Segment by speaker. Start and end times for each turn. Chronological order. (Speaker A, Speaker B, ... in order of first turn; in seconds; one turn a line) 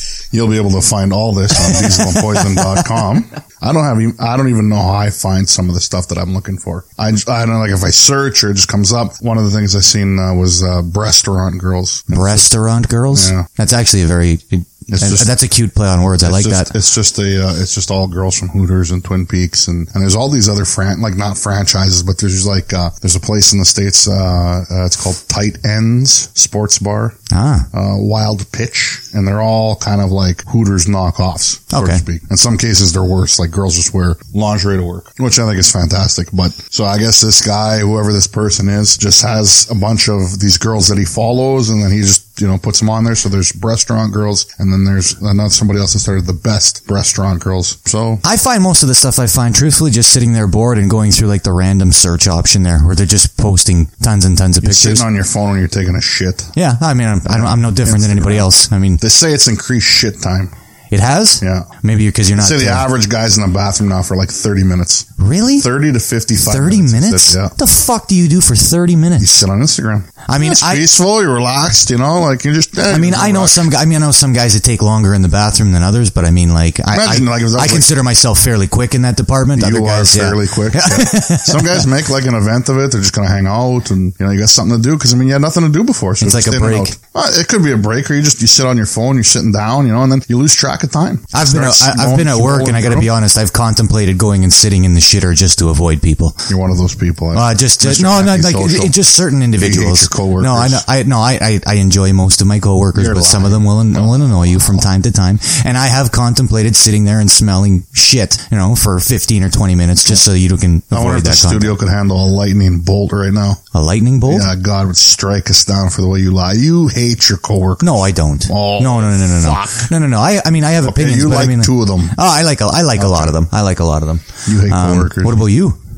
Speaker A: 0.3-12.5
Speaker B: 1.5-3.0
Speaker B: 12.1-16.7
Speaker A: 13.1-13.4
Speaker A: 14.9-15.3
Speaker A: 16.2-27.2
Speaker B: 27.3-27.7
Speaker A: 27.7-48.2
Speaker B: 31.7-32.0
Speaker B: 48.2-55.0
Speaker A: 54.6-56.5
Speaker B: 56.5-59.0
Speaker A: 57.3-58.5
Speaker A: 59.0-60.5
Speaker B: 60.9-62.9
Speaker A: 61.4-61.7
Speaker A: 62.4-67.5
Speaker B: 65.2-65.7
Speaker B: 66.5-69.4
Speaker A: 69.2-73.7
Speaker B: 70.3-70.8
Speaker B: 72.9-81.9
Speaker A: 76.9-77.9
Speaker A: 79.5-93.1
Speaker B: 86.2-86.9
Speaker B: 91.3-96.4
Speaker A: 96.5-98.9
Speaker B: 97.3-111.7
Speaker A: 99.6-100.8
Speaker A: 102.9-104.8
Speaker A: 110.9-113.6
Speaker B: 113.7-114.5
Speaker A: 114.3-117.9
Speaker B: 117.8-125.8
Speaker A: 118.5-119.9
Speaker A: 120.8-122.2
Speaker A: 123.0-123.4
Speaker A: 124.5-125.4